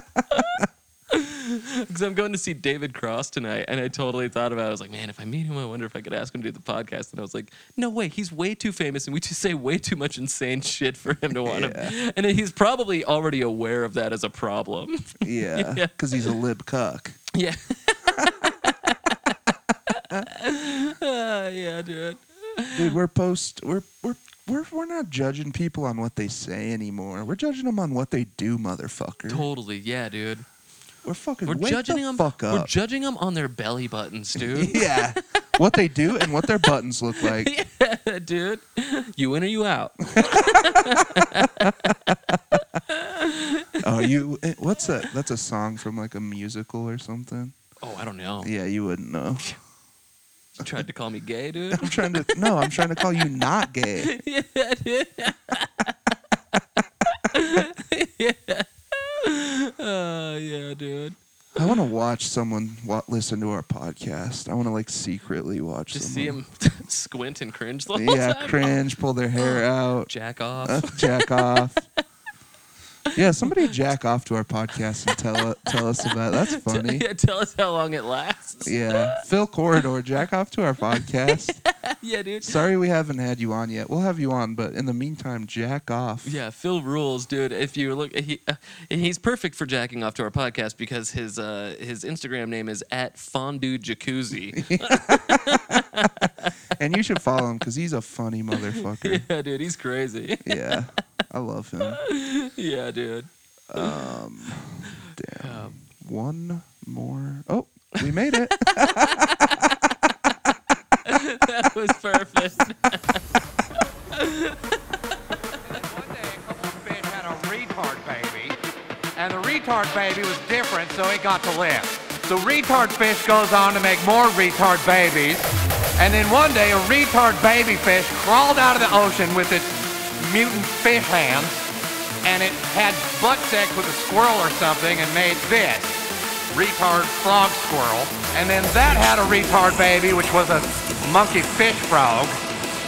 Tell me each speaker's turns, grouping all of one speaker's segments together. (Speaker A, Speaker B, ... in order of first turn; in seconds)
Speaker A: 0.3-15.9, 17.3-19.3, 19.9-23.0, 29.3-30.5, 31.5-35.1, 36.2-36.6, 37.2-44.1, 47.8-48.5, 50.6-52.7, 54.0-56.0, 57.1-61.2, 65.9-68.8, 69.4-71.7, 75.1-79.2, 81.3-82.6, 86.2-96.5, 98.7-100.8, 101.8-104.0, 105.1-105.8, 108.0-109.7, 111.0-113.3, 114.1-114.8
Speaker B: 11.4-11.9, 15.2-17.2, 22.8-29.5, 31.0-32.7, 34.4-37.5, 40.2-41.2, 43.8-47.5, 48.4-49.5, 51.7-54.1, 61.6-66.4, 67.9-70.1, 70.6-71.8, 73.1-77.0, 78.6-81.6, 82.4-86.3, 94.6-95.8, 96.7-99.3, 100.4-102.0, 103.7-110.1
Speaker C: 115.7-118.6, 119.2-131.7, 132.2-142.4